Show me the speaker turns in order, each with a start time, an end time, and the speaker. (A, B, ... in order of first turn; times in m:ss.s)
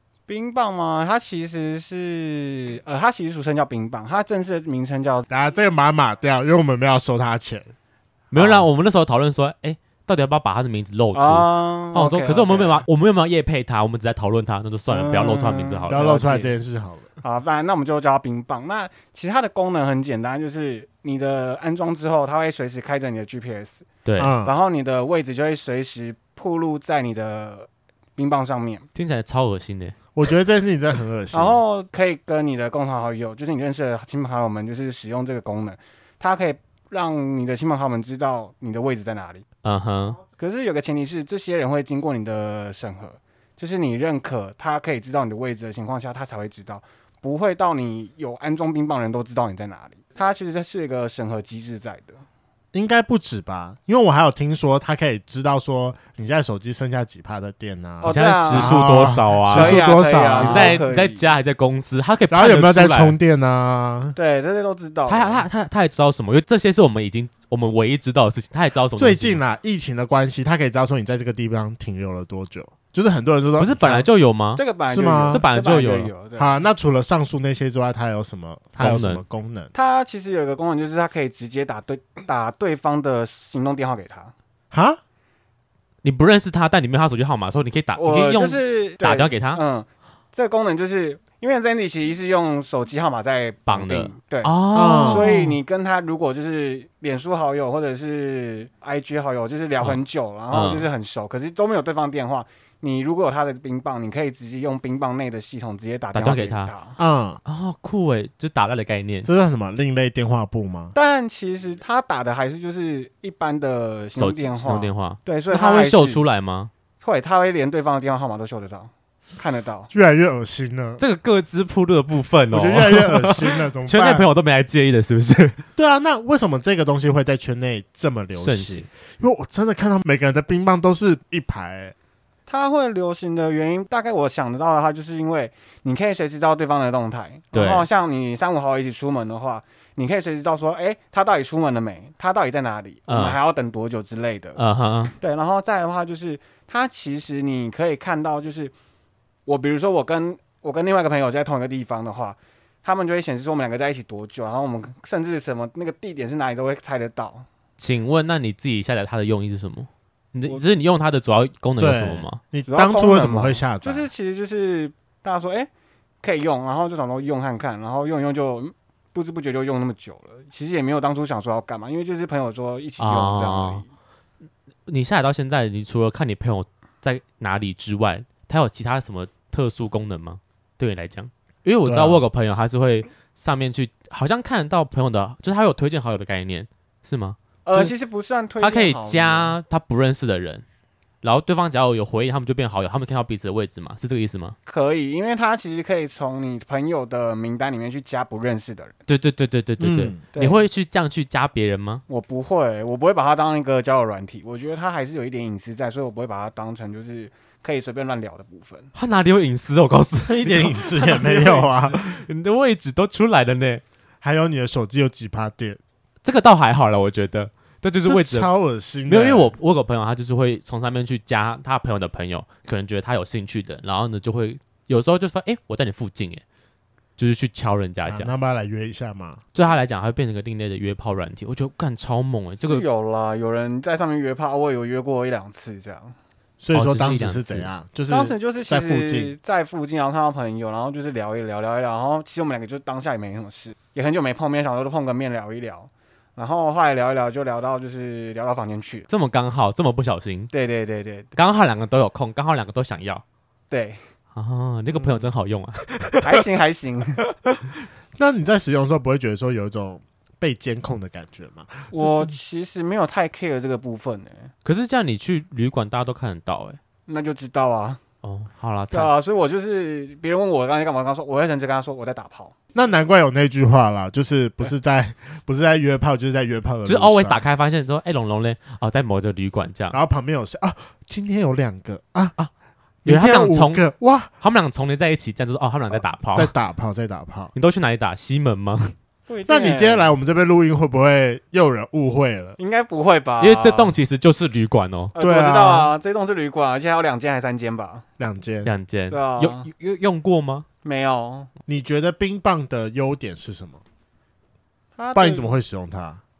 0:00.3-0:05.3 A
0:05.3-0:07.7 B
0:08.3-0:16.1 C
0:08.4-0:08.6 B
0:11.1-0:12.8 A
0:14.9-0:16.5 A
0:15.9-0:17.1 B
0:17.2-0:23.9 A
0:24.0-0:24.3 C
0:24.2-0:24.5 B
0:24.4-0:28.8 A
0:28.9-0:29.9 C
0:30.1-0:31.6 B
0:31.3-0:39.4 A
0:39.6-0:40.2 C
0:40.3-0:52.2 A
0:52.7-1:00.8 B
0:58.0-0:58.8 A
0:58.0-1:03.2 C
0:59.5-1:01.2 A
1:02.3-1:04.1 B
1:04.2-1:05.4 A
1:05.1-1:09.4 C
1:09.0-1:14.1 B
1:13.6-1:14.6 C
1:14.5-1:16.6 A
1:14.9-1:15.4 B
1:15.3-1:16.1 C
1:16.4-1:19.7 B
1:18.8-1:19.2 C
1:19.7-1:24.3 A
1:24.7-1:25.0 B
1:26.0-1:29.6 C
1:28.0-1:47.0 A
1:33.7-1:35.6 C
1:34.7-1:35.3 B
1:40.5-1:40.9 C
1:46.1-1:46.7 C
1:47.0-1:47.4 B
1:47.4-1:49.3 C
1:49.2-1:50.9 B
1:50.9-1:56.2 A
1:54.2-1:56.7 C
1:57.0-1:59.9 A
1:59.9-2:01.0 B
2:01.0-2:05.6 C
2:02.5-2:04.3 B
2:05.8-2:11.9 B
2:08.3-2:08.9 C
2:12.5-2:24.6 A
2:17.5-2:17.9 C
2:23.1-2:23.4 C
2:24.6-2:25.1 C
2:25.2-2:28.7 A
2:29.4-2:37.4 A
2:37.8-2:42.4 C
2:41.8-2:44.1 B
2:42.7-2:45.7 A
2:46.2-2:53.9 A
2:53.0-2:53.8 C
2:54.9-3:07.9 C
3:01.8-3:02.2 B
3:07.6-3:09.6 A
3:08.6-3:10.6 C
3:11.2-3:14.6 C
3:14.7-3:19.0 A
3:19.1-3:22.0 C
3:19.8-3:20.2 B
3:20.3-3:20.6 A
3:22.1-3:28.9 A
3:28.9-3:33.8 C
3:30.2-3:32.2 B
3:34.2-3:35.8 B
3:36.2-3:38.5 C
3:38.0-3:39.5 B
3:39.1-3:46.4 C
3:47.2-3:48.3 C
3:48.0-3:49.4 B
3:49.5-3:52.8 C
3:52.6-3:56.1 A
3:56.6-3:59.3 B
3:56.7-3:57.7 C
3:58.1-4:09.1 A
4:09.1-4:10.5 C
4:10.5-4:11.3 A
4:11.3-4:13.2 C
4:13.7-4:14.0 A
4:14.3-4:16.4 C
4:14.9-4:15.3 A
4:16.2-4:17.2 A
4:18.2-4:22.3 B
4:21.9-4:24.5 A
4:24.6-4:26.8 C
4:27.1-4:28.0 A
4:28.2-4:29.1 C
4:28.9-4:32.5 A
4:32.7-4:37.4 B
4:36.8-4:40.0 C
4:39.9-4:42.3 B
4:43.0-4:44.3 B
4:43.0-4:43.8 C
4:44.4-4:46.5 C
4:46.0-4:47.5 B
4:47.5-4:48.9 C
4:49.3-4:50.1 A
4:49.5-4:52.6 B
4:52.6-4:53.9 A
4:53.4-4:55.1 C
4:55.1-4:58.0 A
4:55.2-4:55.9 B
4:58.2-4:58.7 B
4:58.6-5:00.6 C
4:59.1-4:59.7 A
5:00.8-5:01.5 A
5:01.7-5:03.8 B
5:05.0-5:05.5 A
5:05.1-5:06.2 B